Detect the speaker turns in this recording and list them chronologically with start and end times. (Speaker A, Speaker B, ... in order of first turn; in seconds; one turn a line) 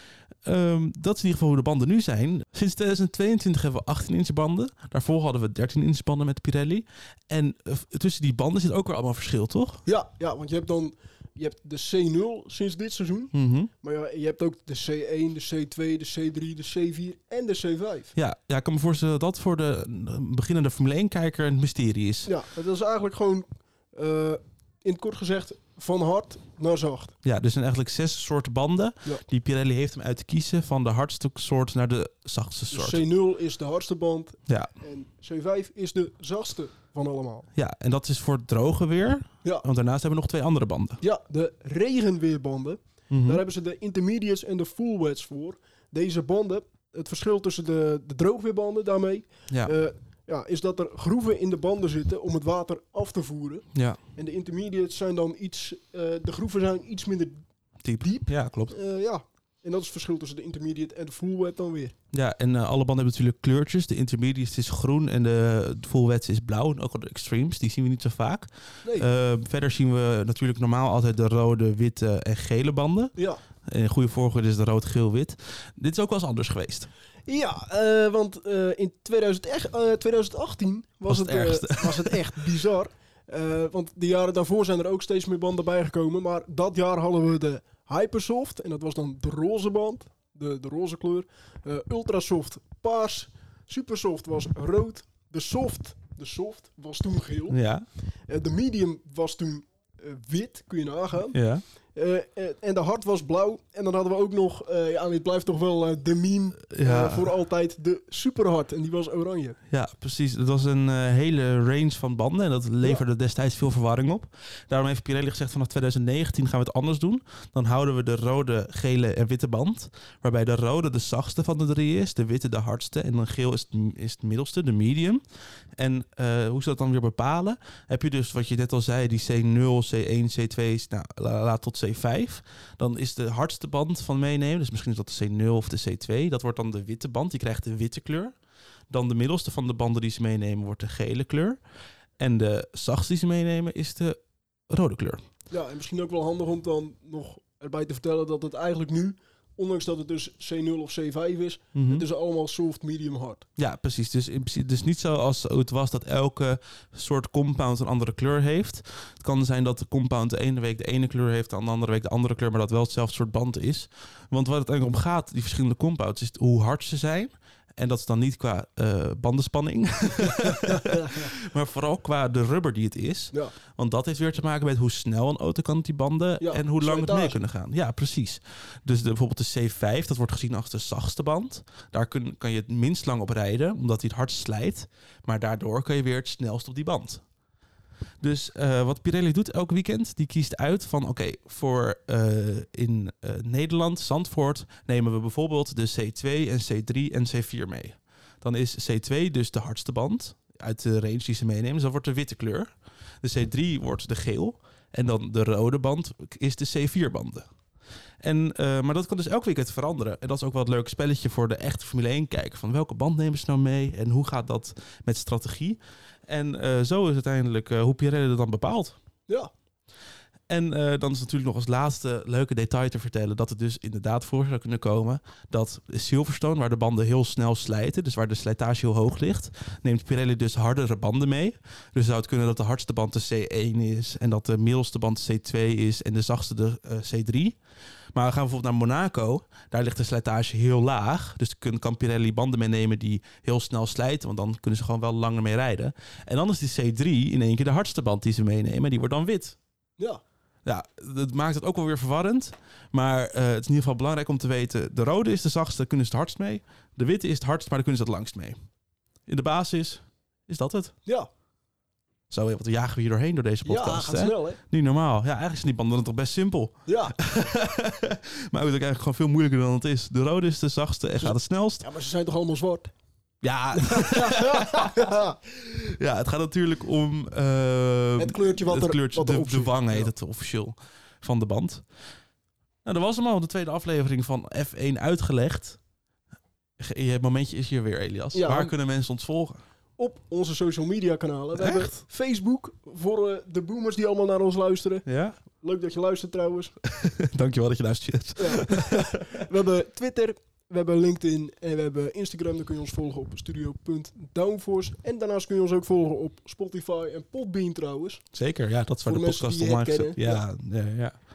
Speaker A: 0.5-9.8
Speaker B: 9.8-18.1
Speaker A: 13.3-13.7
Speaker A: 18.1-22.4
Speaker B: 22.3-27.1
Speaker A: 27.2-33.0
Speaker B: 32.7-37.5
Speaker A: 37.5-41.0
Speaker B: 41.0-57.4
Speaker A: 43.1-43.4
Speaker A: 57.8-58.7
Speaker B: 58.0-61.9
Speaker A: 62.1-73.1
Speaker A: 73.7-76.9
Speaker B: 77.3-97.6
Speaker A: 81.1-82.4
Speaker A: 97.5-97.8
Speaker B: 98.3-101.4
Speaker A: 101.3-101.6
Speaker B: 101.9-109.6
Speaker A: 106.7-107.3
Speaker A: 109.7-125.2
Speaker A: 125.8-138.3
Speaker A: 138.9-141.6
Speaker A: 142.2-144.2
Speaker A: 144.7-145.2
Speaker B: 145.5-153.4
Speaker A: 151.7-152.1
Speaker A: 153.6-187.2
Speaker B: 170.7-171.3
Speaker B: 176.4-177.4
Speaker A: 188.2-202.7
Speaker A: 203.2-207.4
Speaker A: 208.2-218.9
Speaker A: 220.5-237.6
Speaker A: 238.1-249.6
Speaker A: 250.6-258.6
Speaker A: 259.3-260.9
Speaker A: 262.3-271.9
Speaker B: 263.6-264.6
Speaker B: 266.9-267.2
Speaker B: 271.2-272.9
Speaker A: 273.4-281.8
Speaker B: 273.7-275.4
Speaker B: 278.2-280.1
Speaker A: 282.8-285.8
Speaker A: 286.8-289.6
Speaker B: 288.3-288.7
Speaker B: 290.0-295.1
Speaker A: 291.6-292.0
Speaker A: 295.1-295.4
Speaker B: 295.6-296.7
Speaker A: 296.9-299.4
Speaker B: 298.4-308.2
Speaker A: 308.3-311.1
Speaker B: 309.1-310.4